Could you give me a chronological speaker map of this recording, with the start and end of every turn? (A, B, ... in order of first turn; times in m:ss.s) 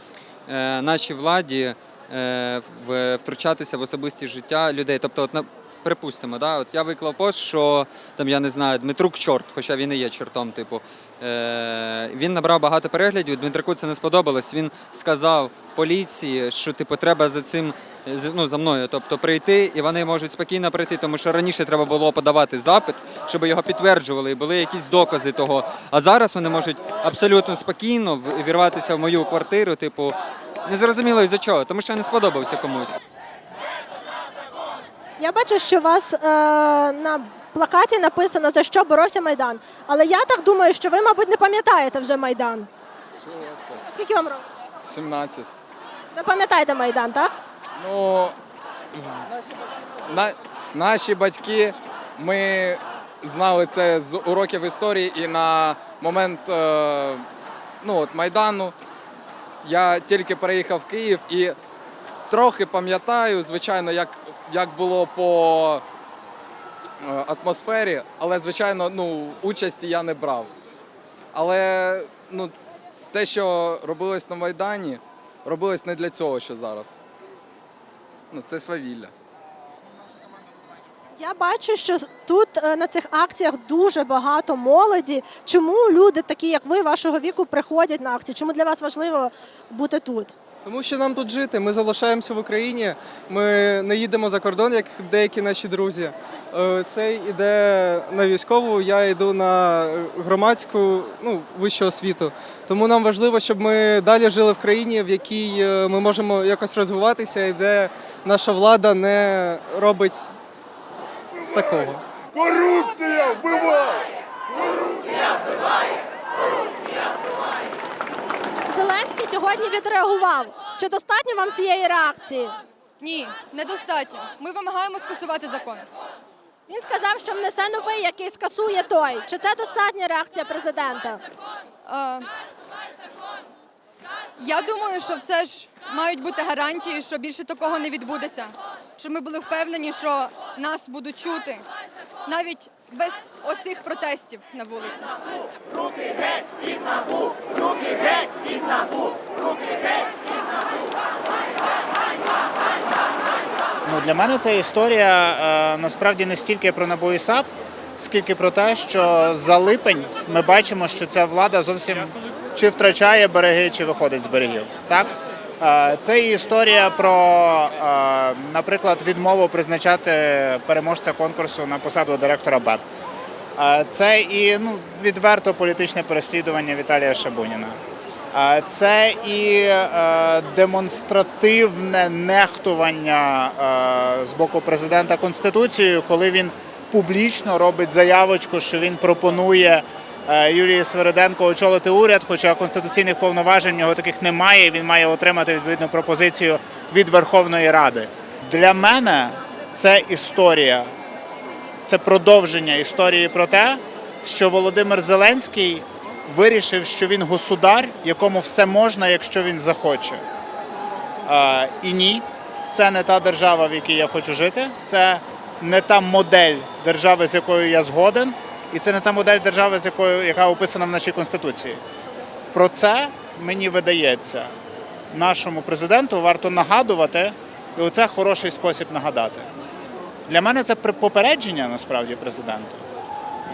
0:00.5-0:33.0 A
0:35.2-0:42.7 B
0:43.4-0:43.8 C
0:43.8-0:44.4 B
0:44.8-0:45.5 C
0:46.1-0:47.3 B
0:47.8-0:48.4 C
0:48.9-0:49.2 C
0:50.1-0:57.2 C
0:57.8-0:58.7 C
0:59.6-1:01.6 C
1:02.3-1:05.8 C
1:07.0-1:10.5 C
1:11.3-1:12.5 C
1:13.1-1:17.0 C
1:18.3-1:19.1 C
1:21.2-1:30.3 B
1:30.6-1:50.3 D
1:51.5-1:52.0 D
1:58.7-2:02.6 B
2:03.0-2:05.8 E
2:06.7-2:11.2 B
2:11.9-2:12.2 E
2:14.4-2:21.6 E
2:22.3-2:25.1 E
2:33.8-2:52.8 F
2:53.6-2:57.8 F
2:58.3-3:20.9 F
3:21.8-3:30.2 F
3:31.2-3:41.8 F
3:42.5-3:44.5 F
3:45.1-3:49.5 F
3:50.3-3:52.8 F